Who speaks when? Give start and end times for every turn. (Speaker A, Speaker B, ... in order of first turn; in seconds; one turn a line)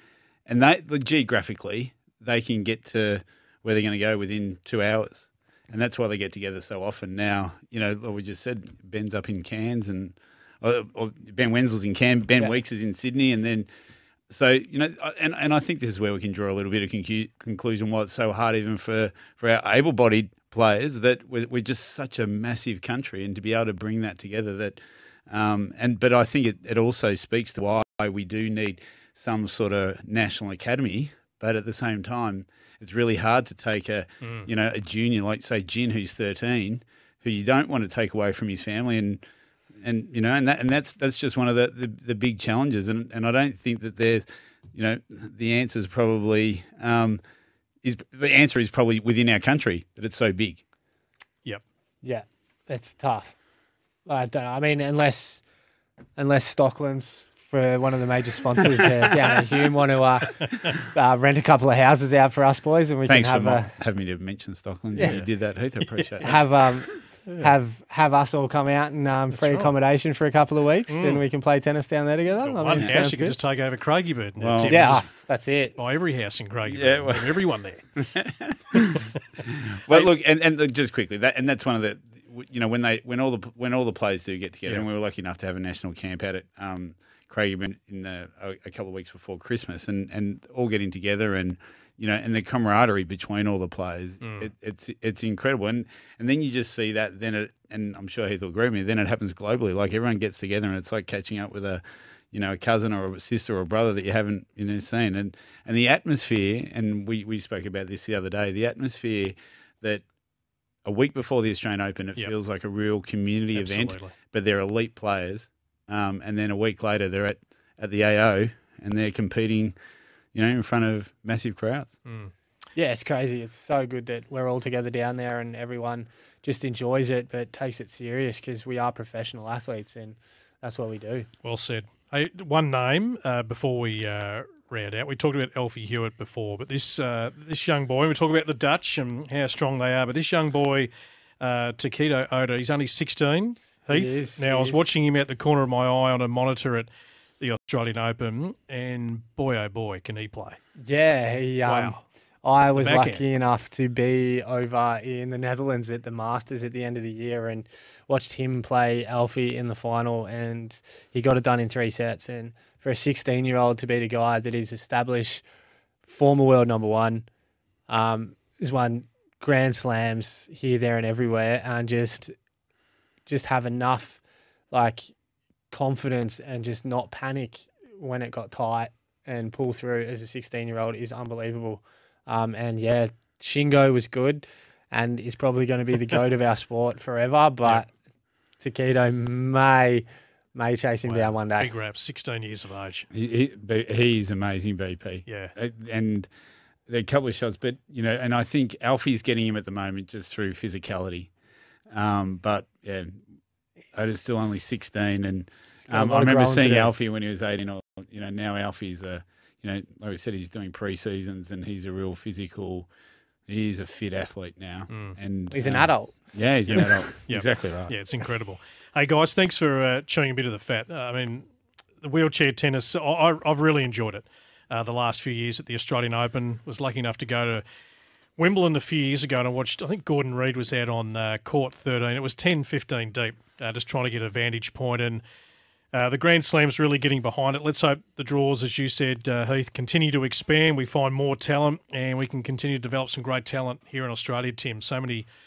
Speaker A: 0.5-13.7
Speaker A: 14.3-39.2
Speaker B: 34.2-34.5
Speaker A: 39.8-47.2
Speaker A: 47.8-50.6
Speaker C: 52.0-53.4
Speaker C: 54.1-55.4
Speaker C: 56.2-63.7
Speaker B: 60.4-60.8
Speaker A: 63.1-66.5
Speaker C: 65.0-65.2
Speaker B: 65.9-66.4
Speaker C: 66.2-73.4
Speaker B: 69.4-69.7
Speaker B: 70.9-71.2
Speaker B: 72.4-75.1
Speaker A: 74.4-74.9
Speaker C: 74.7-75.8
Speaker B: 75.8-77.8
Speaker A: 76.7-77.4
Speaker A: 78.0-110.0
Speaker B: 94.2-94.5
Speaker A: 110.8-119.7
Speaker B: 113.5-114.2
Speaker A: 120.3-121.9
Speaker B: 122.1-122.3
Speaker C: 122.8-131.3
Speaker B: 131.4-146.9
Speaker C: 143.9-144.9
Speaker B: 147.4-150.6
Speaker C: 150.8-165.4
Speaker B: 151.7-152.0
Speaker B: 152.8-153.2
Speaker C: 166.1-167.3
Speaker C: 167.9-172.3
Speaker C: 173.3-174.2
Speaker C: 174.7-175.1
Speaker C: 175.7-187.9
Speaker C: 188.6-191.7
Speaker B: 191.1-193.1
Speaker A: 193.1-196.3
Speaker B: 195.3-195.5
Speaker A: 196.9-201.3
Speaker A: 201.9-203.2
Speaker A: 203.9-212.9
Speaker C: 205.8-206.9
Speaker A: 213.5-217.9
Speaker B: 214.9-215.2
Speaker C: 215.5-216.2
Speaker B: 216.7-221.5
Speaker B: 222.0-227.6
Speaker B: 228.4-235.2
Speaker B: 235.9-245.3